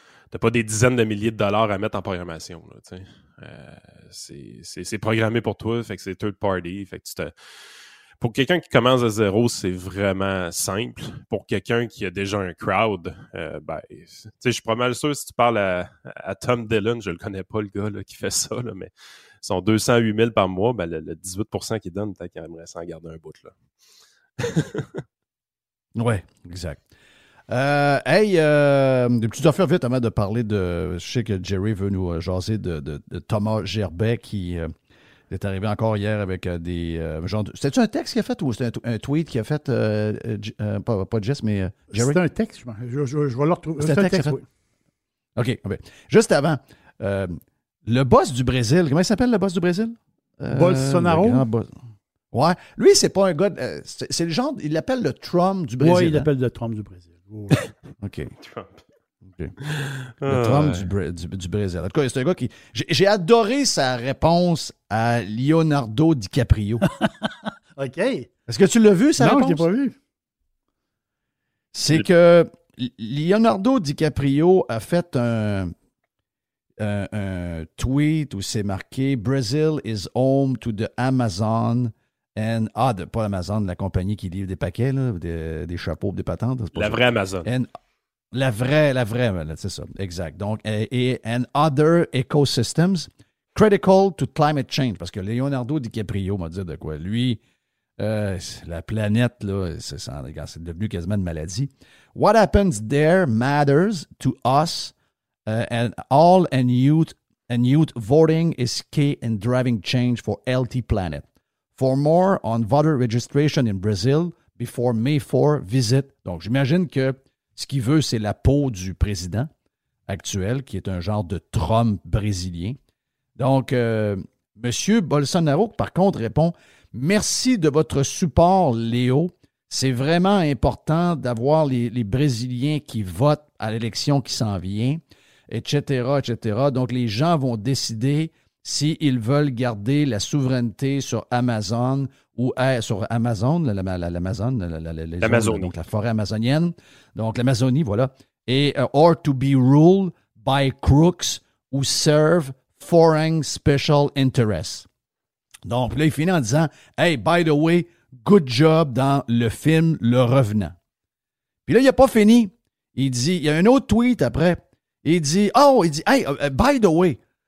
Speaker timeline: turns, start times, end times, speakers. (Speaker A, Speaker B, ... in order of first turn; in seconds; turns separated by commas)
Speaker A: 0.3-7.3, Speaker A: 8.2-23.5, Speaker A: 24.4-25.0, Speaker B: 25.9-26.9, Speaker B: 27.5-34.7, Speaker B: 35.3-42.2, Speaker C: 41.9-44.4, Speaker B: 43.8-44.4, Speaker B: 45.4-51.7, Speaker C: 50.5-51.4, Speaker B: 52.3-56.3, Speaker C: 55.8-57.6, Speaker B: 58.0-58.3, Speaker A: 58.4-58.8, Speaker A: 59.6-60.9, Speaker B: 60.2-66.8, Speaker C: 67.0-68.3, Speaker B: 68.5-69.7, Speaker C: 69.2-69.9, Speaker B: 71.7-75.7, Speaker B: 76.8-87.7, Speaker A: 86.7-87.5, Speaker B: 88.3-97.4, Speaker B: 98.0-104.9, Speaker B: 105.5-119.5, Speaker B: 120.1-122.8, Speaker B: 123.3-154.9, Speaker A: 145.2-145.7, Speaker B: 155.6-160.8, Speaker B: 161.7-167.2